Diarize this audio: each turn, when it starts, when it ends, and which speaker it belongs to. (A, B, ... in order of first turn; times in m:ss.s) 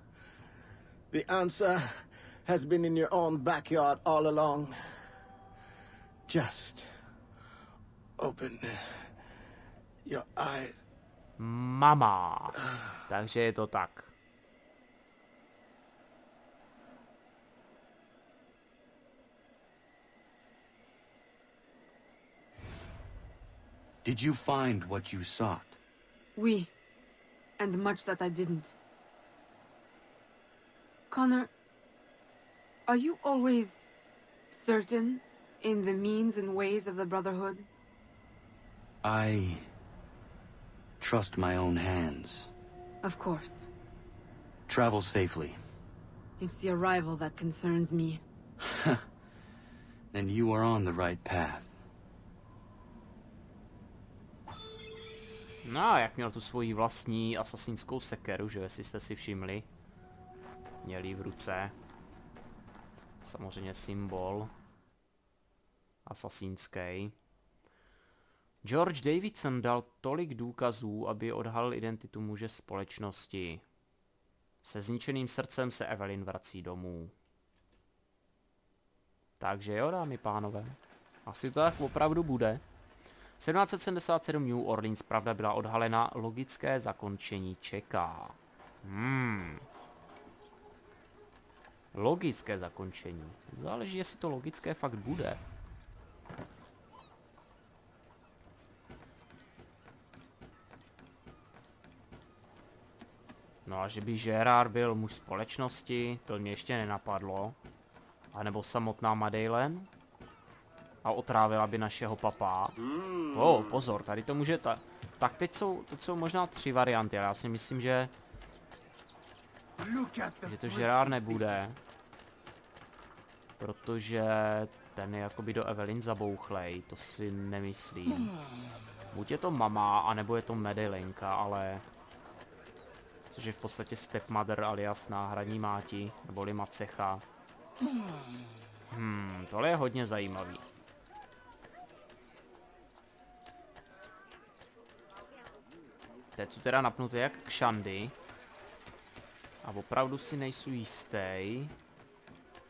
0:01.1-0:04.8 A
0:06.3-0:06.9 A
0:08.2-0:09.1 A
0:10.0-0:10.7 A
0:11.4-0:14.1 B
0:24.0-0:25.8 C
0:26.4-0:26.7 D
0:27.6-0:28.7 D
0:31.1-0:31.5 D
0:32.9-0:33.8 D
0:34.5-0:37.6 D
0:39.0-0:39.7 C
0:41.0-0:42.5 C
0:43.0-0:43.7 D
0:44.7-0:45.6 C
0:46.4-0:48.2 D
0:48.7-0:49.0 C
0:50.1-0:51.8 C
0:55.6-0:59.7 B
1:00.8-1:01.7 B
1:03.2-1:04.5 B
1:06.0-1:07.1 B
1:08.6-1:13.6 B
1:14.6-1:17.1 B
1:19.4-1:22.6 B
1:23.4-1:29.6 B
1:31.9-1:35.4 B
1:43.6-1:47.6 B
1:48.3-1:49.9 B
1:51.0-1:58.1 B
1:59.9-2:00.4 A
2:00.4-2:01.8 B
2:03.6-2:08.3 B
2:09.1-2:11.8 B
2:13.3-2:17.2 B
2:18.9-2:20.6 B
2:26.4-2:28.1 B
2:29.6-2:31.7 B